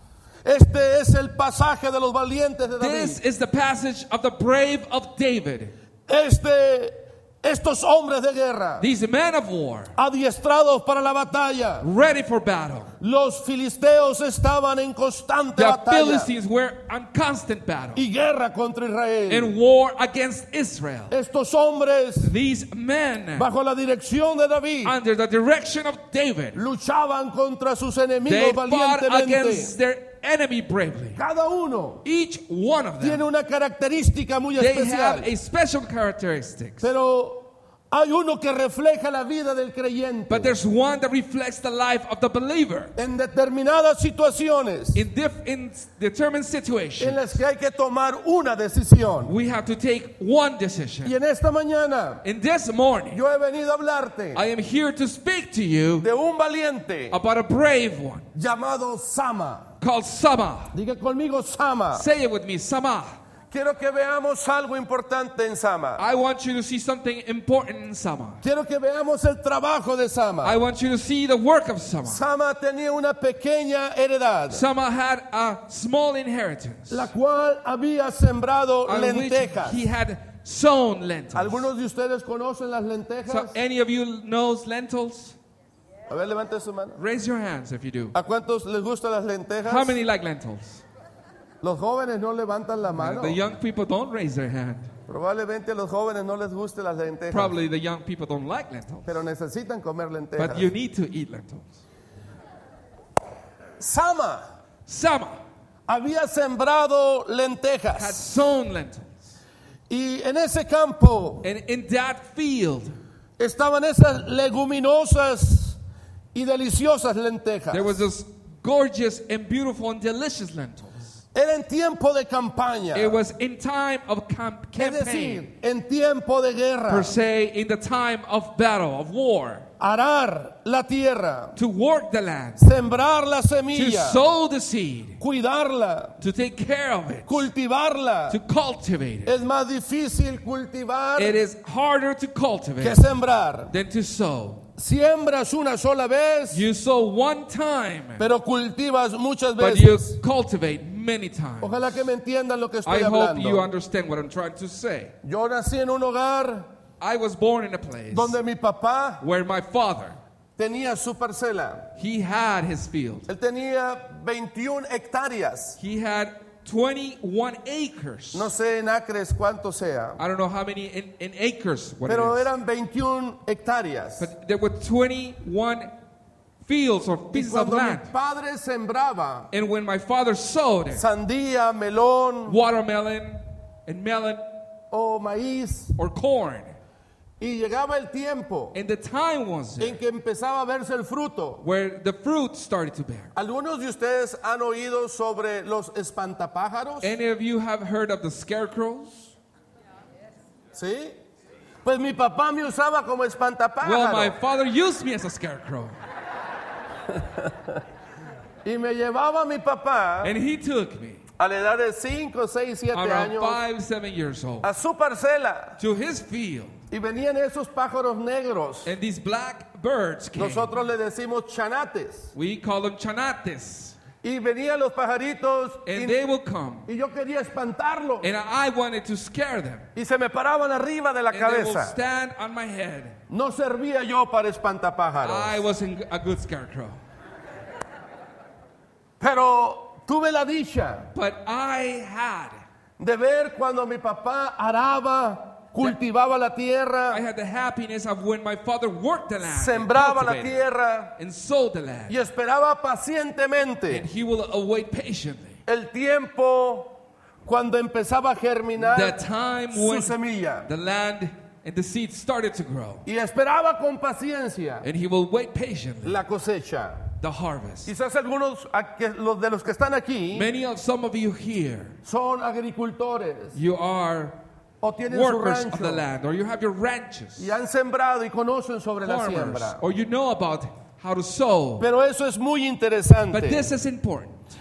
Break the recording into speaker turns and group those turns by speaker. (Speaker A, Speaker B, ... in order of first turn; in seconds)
Speaker A: 0.4-3.2, 6.1-8.9, 9.9-11.9, 13.0-16.3, 17.9-19.5, 21.1-22.3, 23.3-24.9, 26.5-29.7, 31.1-32.0, 33.0-35.3, 36.8-40.5, 43.0-45.0, 47.0-49.3, 51.0-52.2, 53.1-54.4, 56.0-57.2, 58.3-59.7, 60.7-62.0, 63.5-66.0, 68.4-70.6, 72.0-74.6, 76.9-79.8, 81.3-83.5, 86.1-87.0, 88.1-90.0, 91.6-93.4, 95.1-97.5, 99.0-100.7, 103.8-104.4, 105.9-108.2, 109.9-111.5, 113.4-115.8, 116.3-117.9, 121.3-123.2, 124.8-127.2, 129.8-131.6, 132.6-134.2, 135.2-136.2, 137.3-138.4, 139.2-141.4, 142.8-143.7, 144.8-146.6, 148.2-150.2, 151.6-153.7, 155.2-156.7, 158.1-159.2, 160.6-161.9, 163.3-165.8, 168.3-170.2, 172.1-174.3, 177.3-179.5, 180.9-182.6, 184.9-185.9, 187.4-188.8, 189.8-191.6, 193.3-197.1, 200.7-201.2, 201.8-204.3, 207.1-207.8, 208.6-210.3, 211.4-213.6, 214.6-215.8, 216.9-218.9, 220.3-222.3, 224.2-226.2, 226.9-228.3, 229.9-231.9, 233.3-235.6, 239.2-241.1, 243.0-247.2, 249.4-251.1, 252.1-254.1, 255.7-259.2, 259.7-260.7, 263.1-264.9, 266.0-267.1, 267.9-270.5, 272.1-273.6, 274.8-276.0, 277.4-279.8, 281.8-283.7
Speaker B: 2.8-5.7, 8.8-9.9, 11.8-12.9, 15.6-18.0, 19.3-21.1, 22.2-23.4, 24.8-26.6, 28.2-31.2, 32.0-33.2, 34.5-36.9, 40.3-42.9, 44.9-47.2, 49.2-51.1, 52.2-53.2, 54.3-56.1, 57.1-58.2, 59.8-60.7, 61.9-63.1, 66.0-68.4, 70.4-72.2, 74.5-77.1, 78.8-81.6, 83.3-85.3, 87.0-88.2, 89.6-90.8, 93.0-94.9, 97.3-99.1, 100.4-101.8, 104.9-105.3, 108.0-109.3, 111.4-113.0, 117.7-121.1, 122.9-125.4, 126.9-129.6, 131.6-132.6, 133.7-135.2, 136.2-137.5, 138.3-139.3, 141.2-143.0, 143.7-144.7, 146.5-148.2, 149.6-152.0, 152.8-155.1, 157.0-158.3, 159.2-160.2, 162.0-163.3, 165.8-168.5, 170.2-172.5, 174.2-175.9, 176.6-178.1, 179.5-181.0, 182.5-184.4, 186.0-186.7, 188.7-190.0, 191.6-193.3, 197.0-199.3, 203.8-205.9, 210.2-211.2, 212.9-214.7, 215.8-216.8, 218.8-220.7, 222.3-223.9, 225.8-226.9, 228.2-229.9, 231.3-233.2, 235.2-237.0, 241.1-242.6, 247.1-250.7, 251.2-252.2, 253.9-255.6, 258.8-263.0, 264.8-266.2, 267.2-267.9, 270.3-271.9, 273.5-274.4, 275.1-277.5, 279.0-281.9, 283.3-284.4